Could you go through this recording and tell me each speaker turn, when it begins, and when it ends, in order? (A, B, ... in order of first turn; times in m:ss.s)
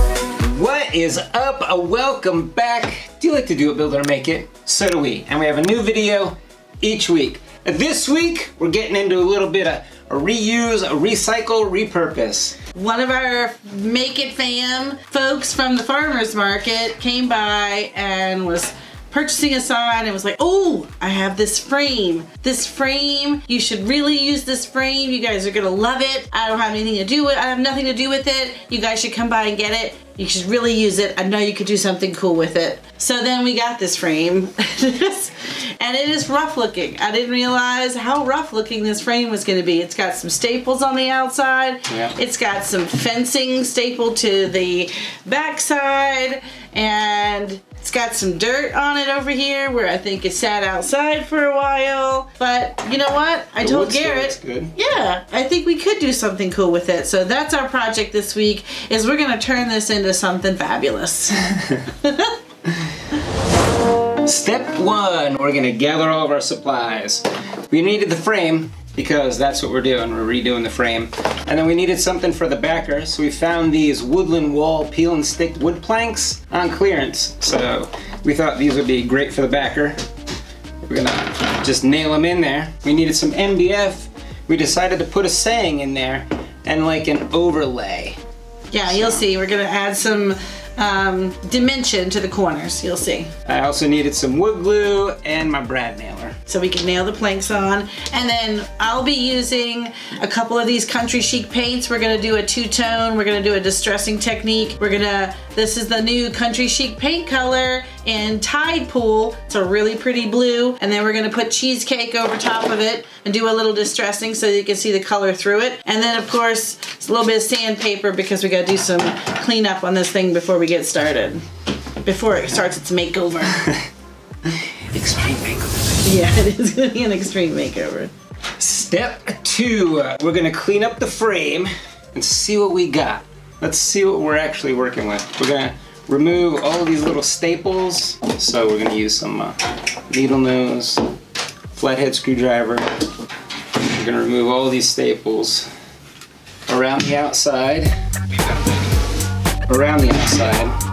0:00.4-0:12.6 A
0:12.7-1:02.4 B
0:41.9-0:42.1 A
0:53.6-0:54.7 A
1:04.2-1:20.0 A
1:20.8-1:28.2 A
1:28.7-1:33.3 B
1:28.9-1:29.2 A
1:33.4-1:36.4 A
1:36.5-2:01.4 B
2:02.0-2:03.6 B
2:04.6-2:06.0 A
2:06.0-2:08.1 B
2:08.6-2:19.6 A
2:20.1-2:21.0 A
2:21.7-2:22.8 A
2:23.8-2:25.7 A
2:26.7-2:27.9 A
2:29.7-2:30.7 A